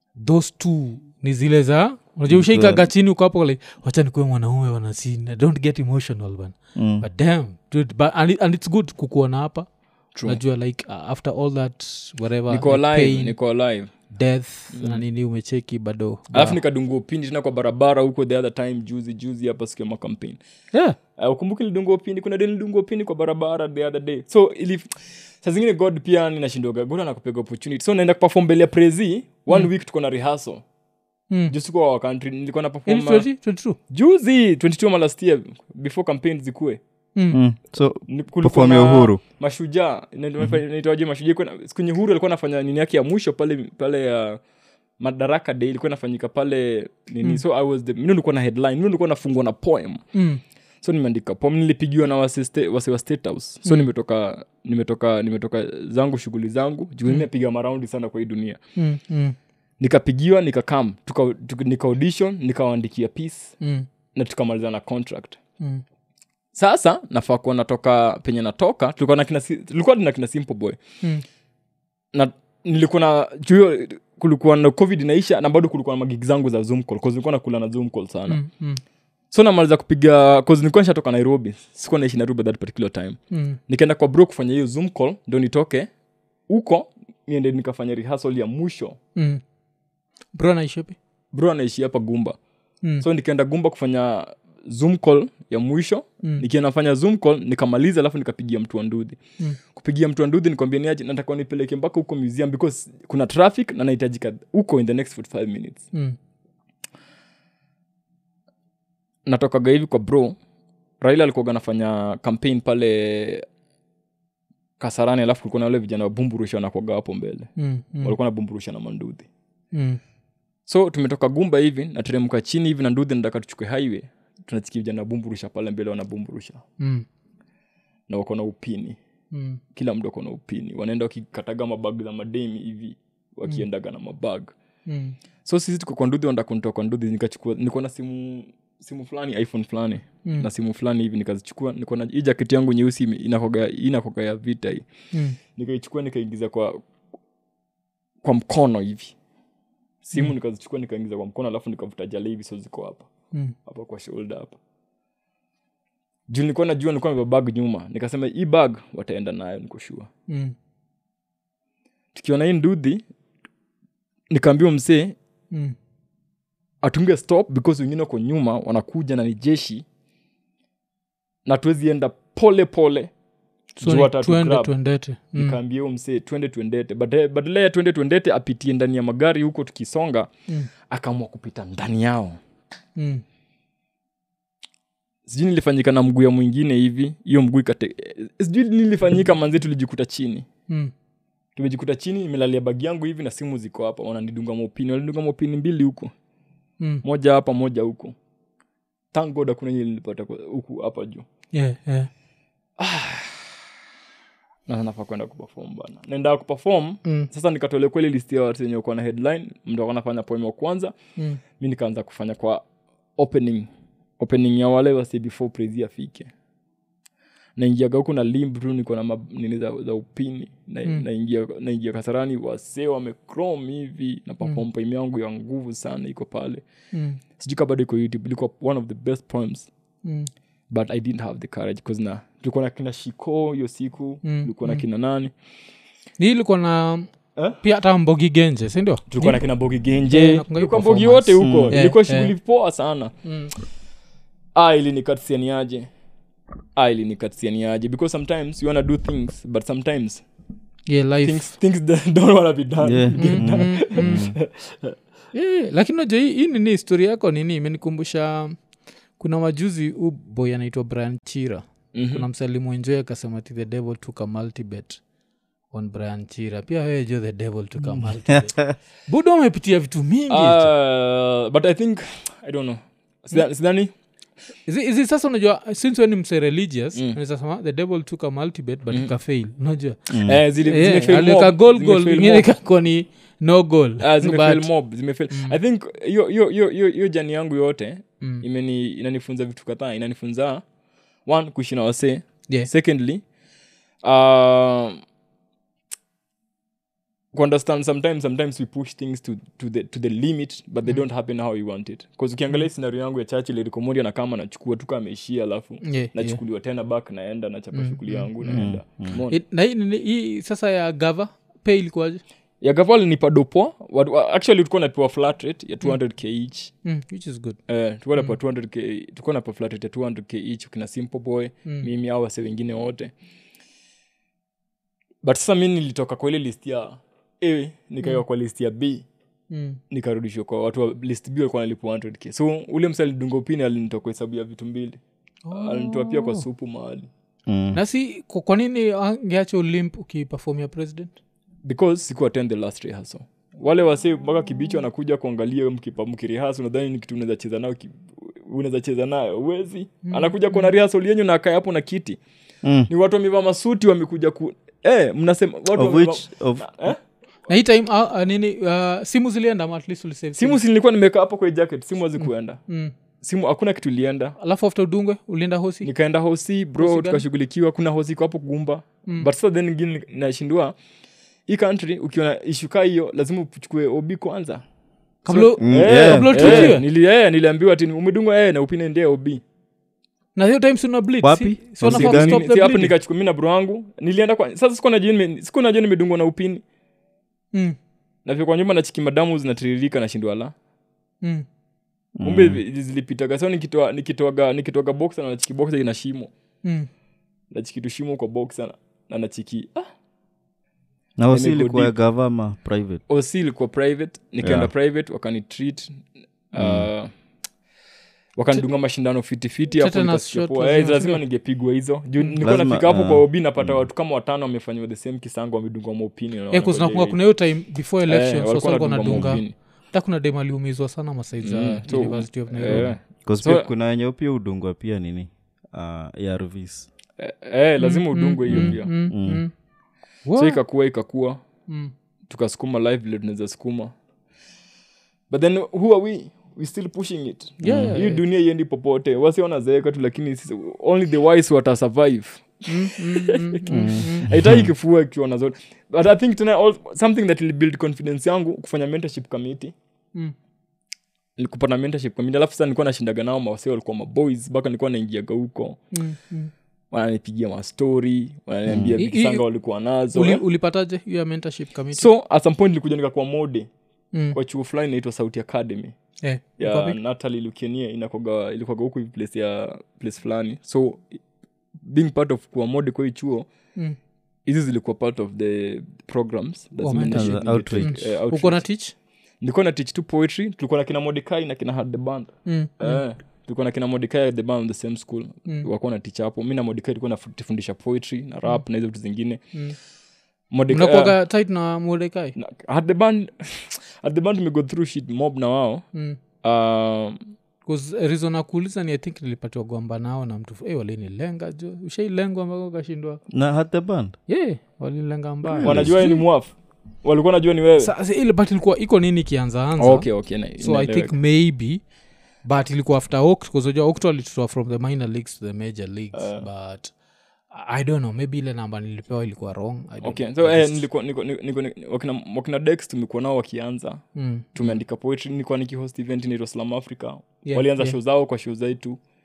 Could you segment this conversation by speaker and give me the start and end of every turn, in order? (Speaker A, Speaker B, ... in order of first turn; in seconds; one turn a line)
Speaker A: 0.2-9.7
Speaker B: 2.3-2.9
Speaker B: 6.8-7.0
Speaker C: 10.1-10.4
Speaker A: 10.2-13.4
Speaker C: 12.5-13.9
Speaker A: 14.1-16.6
Speaker C: 14.7-15.0
Speaker C: 16.3-20.4
Speaker C: 21.2-24.9
Speaker C: 25.4-30.6
Speaker C: 31.5-33.3
Speaker A: 32.9-33.8
Speaker C: 33.9-36.8
Speaker B: 37.3-39.2
Speaker C: 38.1-44.4
Speaker C: 45.0-50.0
Speaker A: 50.1-50.4
Speaker C: 50.8-58.6
Speaker A: 58.8-59.4
Speaker C: 59.8-63.6
Speaker A: 63.6-63.9
Speaker C: 64.1-65.4
Speaker C: 66.5-70.8
Speaker C: 72.1-78.4
Speaker A: 78.3-78.8
Speaker C: 79.3-85.9
Speaker A: 83.3-83.6
Speaker C: 86.5-89.0
Speaker A: 89.2-89.4
Speaker A: 90.3-91.0
Speaker C: 91.3-92.4
Speaker C: 93.0-99.2
Speaker C: 99.7-105.9
Speaker C: 109.3-110.4
Speaker C: 111.0-113.5
Speaker C: 114.8-117.5
Speaker A: 117.6-118.2
Speaker C: 118.0-119.3
Speaker A: 119.7-120.0
Speaker C: 120.7-126.6
Speaker A: 126.8-127.0
Speaker C: 128.1-129.0
Speaker A: 129.3-129.6
Speaker C: 129.7-134.5
Speaker A: 134.9-135.2
Speaker C: 135.4-144.8
Speaker C: 145.6-146.8
Speaker C: 148.2-149.1
Speaker C: 150.0-153.1
Speaker C: 153.6-154.6
Speaker C: 156.3-160.1
Speaker A: 160.3-160.6
Speaker C: 162.1-163.0
Speaker C: 164.3-165.1
Speaker C: 166.8-169.8
Speaker C: 171.4-173.1
Speaker A: 173.8-175.6
Speaker C: 173.8-174.7
Speaker C: 175.3-180.3
Speaker C: 180.9-182.4
Speaker A: 183.0-183.2
Speaker C: 185.3-190.5
Speaker C: 191.6-196.1
Speaker C: 197.0-198.2
Speaker C: 199.1-201.3
Speaker A: 201.5-202.1
Speaker C: 202.8-203.5
Speaker C: 204.7-210.9
Speaker C: 211.6-212.6
Speaker C: 213.2-216.3
Speaker C: 217.6-226.6
Speaker A: 226.9-227.2
Speaker C: 227.4-229.7
Speaker A: 230.0-230.3
Speaker C: 230.7-235.3
Speaker A: 234.2-234.8
Speaker A: 236.2-237.1
Speaker A: 237.6-239.4
Speaker C: 239.1-243.2
Speaker A: 240.1-242.3
Speaker B: 241.4-241.8
Speaker A: 243.2-243.5
Speaker C: 244.6-245.9
Speaker C: 246.8-250.2
Speaker A: 250.9-251.5
Speaker C: 251.2-254.9
Speaker B: 252.8-254.4
Speaker A: 253.2-254.2
Speaker A: 255.3-258.6
Speaker A: 259.2-265.0
Speaker C: 261.9-262.3
Speaker A: 265.7-270.7
Speaker B: 267.9-268.8
Speaker C: 270.3-273.9
Speaker A: 274.7-284.7
Speaker B: 280.1-280.4
Speaker C: 280.2-282.5
Speaker C: 284.0-290.6
Speaker A: 285.3-285.6
Speaker C: 291.3-293.2
Speaker C: 294.0-295.0
Speaker C: 297.3-309.4
Speaker A: 305.8-306.4
Speaker A: 307.7-308.7
Speaker B: 308.5-309.2
Speaker A: 309.3-312.2
Speaker C: 312.6-316.7
Speaker A: 316.8-317.6
Speaker C: 317.7-323.1
Speaker C: 325.2-329.1
Speaker A: 329.5-329.8
Speaker C: 329.9-335.0
Speaker A: 335.4-336.4
Speaker C: 335.5-337.1
Speaker B: 337.5-337.8
Speaker A: 337.7-341.1
Speaker C: 341.6-352.2
Speaker A: 350.1-350.7
Speaker B: 352.6-352.9
Speaker C: 352.9-357.0
Speaker B: 355.7-356.9
Speaker A: 357.5-360.6
Speaker C: 360.4-362.6
Speaker A: 362.2-362.9
Speaker C: 363.2-364.4
Speaker A: 364.4-365.9
Speaker C: 365.8-370.8
Speaker A: 366.8-367.2
Speaker C: 371.5-374.6
Speaker A: 375.2-376.8
Speaker C: 375.3-379.4
Speaker B: 375.6-376.8
Speaker A: 380.4-382.9
Speaker B: 381.2-382.4
Speaker C: 381.8-386.6
Speaker C: 388.2-390.5
Speaker B: 392.2-392.6
Speaker C: 392.2-396.3
Speaker A: 396.6-396.9
Speaker C: 397.5-399.9
Speaker B: 401.2-403.0
Speaker C: 401.3-401.9
Speaker C: 403.1-406.0
Speaker B: 404.4-404.7
Speaker C: 406.5-407.1
Speaker B: 406.6-406.9
Speaker C: 408.4-417.2
Speaker A: 409.7-411.2
Speaker B: 412.4-413.9
Speaker A: 416.5-422.9
Speaker C: 418.1-419.5
Speaker C: 421.4-423.7
Speaker B: 422.7-426.9
Speaker C: 427.2-428.9
Speaker A: 427.8-429.5
Speaker B: 428.5-429.4
Speaker A: 430.3-430.6
Speaker C: 430.4-431.4
Speaker A: 431.7-431.9
Speaker C: 432.3-433.9
Speaker C: 435.3-449.8
Speaker A: 437.6-438.2
Speaker B: 437.6-438.0
Speaker A: 442.7-444.3
Speaker B: 443.7-444.7
Speaker C: 451.4-455.8
Speaker A: 455.9-456.5
Speaker C: 456.9-460.4
Speaker B: 458.7-459.0
Speaker A: 459.0-459.4
Speaker A: 460.1-462.1
Speaker C: 461.9-463.7
Speaker C: 464.3-465.9
Speaker A: 466.2-467.0
Speaker C: 466.6-471.2
Speaker C: 471.8-473.5
Speaker C: 474.4-478.6
Speaker A: 476.8-478.9
Speaker B: 477.1-477.9
Speaker C: 479.4-489.4
Speaker A: 482.4-483.0
Speaker C: 490.5-491.1
Speaker A: 490.7-492.4
Speaker C: 492.4-495.9
Speaker A: 495.9-496.2
Speaker C: 496.4-497.2
Speaker A: 497.7-503.2
Speaker B: 503.3-504.2
Speaker A: 504.3-506.2
Speaker B: 505.6-505.9
Speaker C: 505.6-507.9
Speaker A: 507.8-511.8
Speaker C: 509.8-511.1
Speaker A: 512.4-516.9
Speaker C: 516.1-516.5
Speaker A: 517.5-520.9
Speaker C: 520.0-529.0
Speaker A: 524.1-524.8
Speaker A: 527.5-528.0